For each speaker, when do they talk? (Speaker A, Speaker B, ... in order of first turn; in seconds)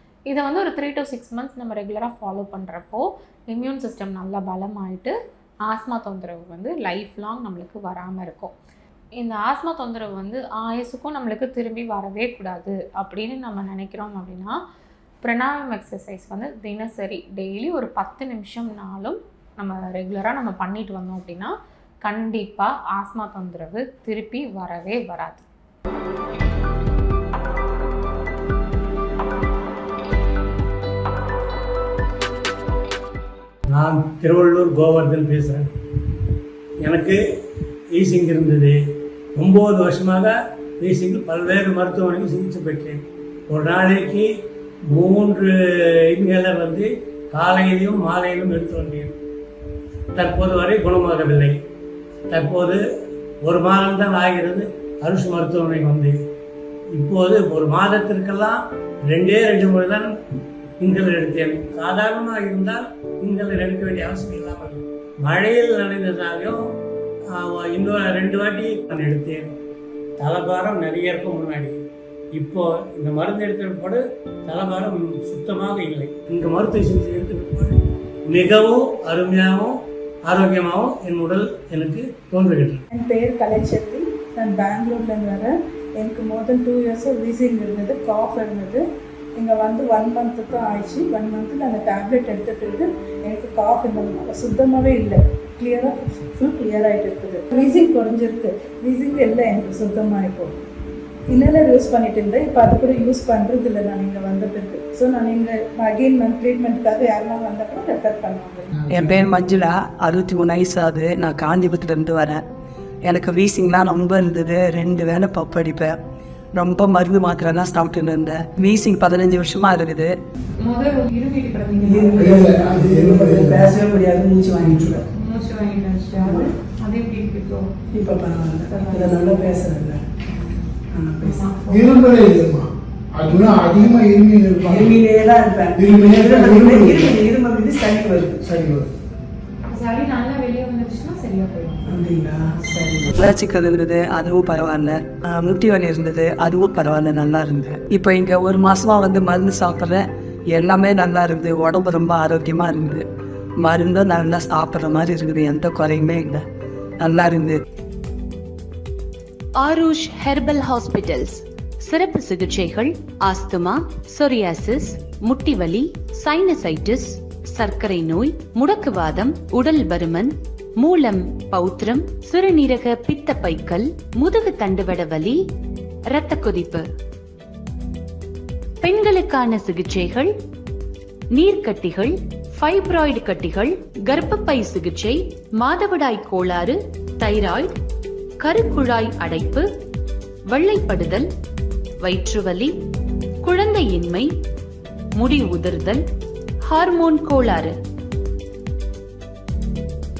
Speaker A: 0.3-5.1, 5.7-8.5, 9.2-14.6, 15.2-21.5, 22.0-25.4, 120.6-122.5, 125.2-127.7, 128.7-129.4, 131.2-132.3, 139.7-142.0
Speaker B: 33.7-35.6, 36.8-37.2, 37.9-38.8, 39.4-44.2, 44.9-45.5, 46.1-49.1, 50.1-51.5, 52.3-52.8, 53.4-56.1, 56.9-60.1, 60.8-66.6, 67.3-69.5, 70.2-71.8, 72.3-77.8, 78.3-79.7, 80.2-82.8
Speaker C: 82.9-88.8, 89.3-100.5, 101.3-108.7
Speaker D: 108.9-109.2, 122.2-123.7, 131.7-134.9, 135.7-137.2, 138.5-138.8
Speaker E: 108.9-112.4, 113.1-116.0, 116.5-120.1, 121.8-125.0, 126.1-126.5, 127.9-130.0, 130.9-131.5, 134.6-138.6, 141.8-153.0, 153.6-156.4, 157.0-157.6
Speaker F: 159.6-175.4, 176.1-176.9, 178.8-180.3, 181.3-187.8, 188.4-189.7, 190.5-191.3, 192.0-192.7, 193.4-194.3, 195.2-196.0, 196.6-197.7